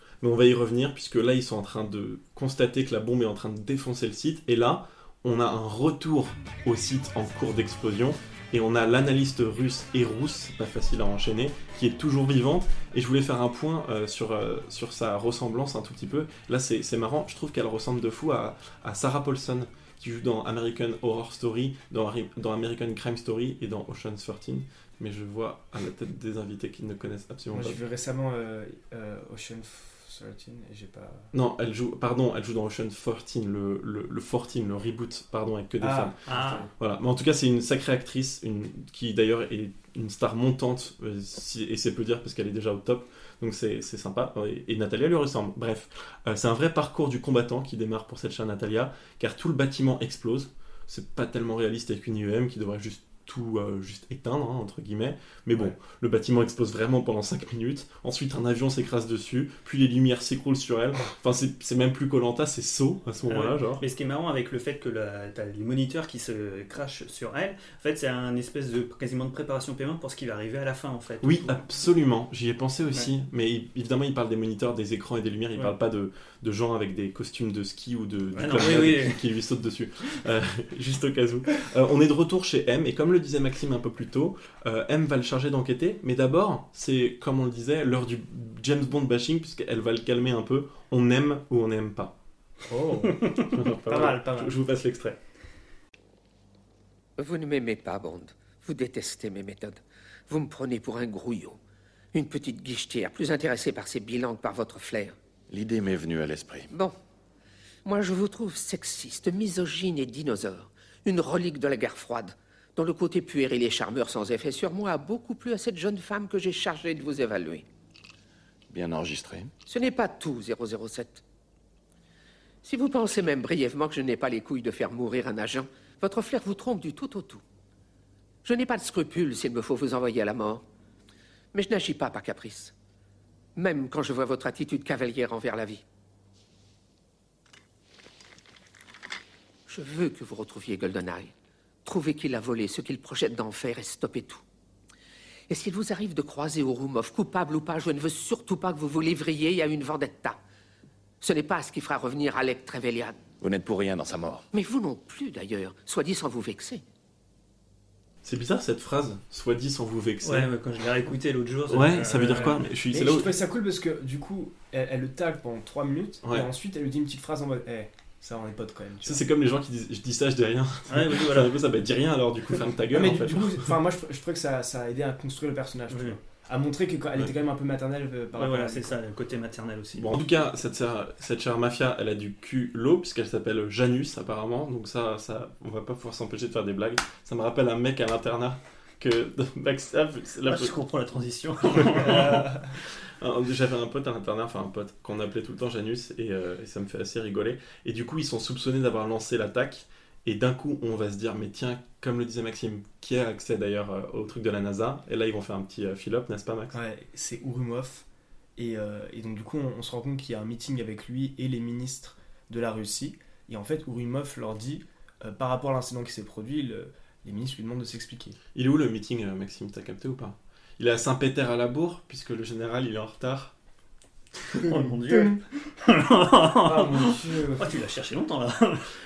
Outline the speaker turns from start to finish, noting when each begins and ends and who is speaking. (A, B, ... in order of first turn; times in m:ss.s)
0:00.2-0:27.8 A
0:27.5-0:31.3 B
0:31.3-0:36.2 A
0:35.8-0:36.7 B
0:36.3-0:36.7 C
0:36.8-1:03.8 A
1:03.3-1:11.6 C
1:11.2-1:32.1 A
1:18.3-1:19.2 C
1:32.7-1:33.2 B
1:33.5-1:35.2 A
1:33.9-1:34.6 B
1:37.2-1:41.6 D
1:42.1-1:45.2 D
1:45.5-1:46.7 E
1:46.7-1:47.0 D
1:47.8-1:57.6 D
1:58.7-1:59.5 E
1:59.7-2:01.2 D
2:02.6-2:07.4 D
2:08.4-2:10.6 D
2:11.5-2:12.7 D
2:13.6-2:15.8 D
2:19.7-2:21.3 D
2:21.8-2:24.4 D
2:25.5-2:30.4 D
2:31.2-2:33.2 D
2:33.4-2:34.4 E
2:34.5-2:36.8 D
2:38.2-2:40.5 A
2:40.2-2:42.7 C
2:41.7-2:43.3 A
2:42.3-2:49.2 B
2:46.2-2:46.5 A
2:49.0-2:53.7 A
2:50.9-2:51.6 C
2:52.9-2:59.0 B
2:55.9-2:56.2 C
2:58.4-3:00.2 C
3:00.0-3:10.7 A
3:10.4-3:12.5 C
3:11.7-3:26.8 A
3:26.7-3:28.0 B
3:28.6-3:38.4 B
3:38.6-3:43.5 A
3:44.6-3:48.9 C
3:44.7-3:45.4 B
3:46.6-3:47.6 B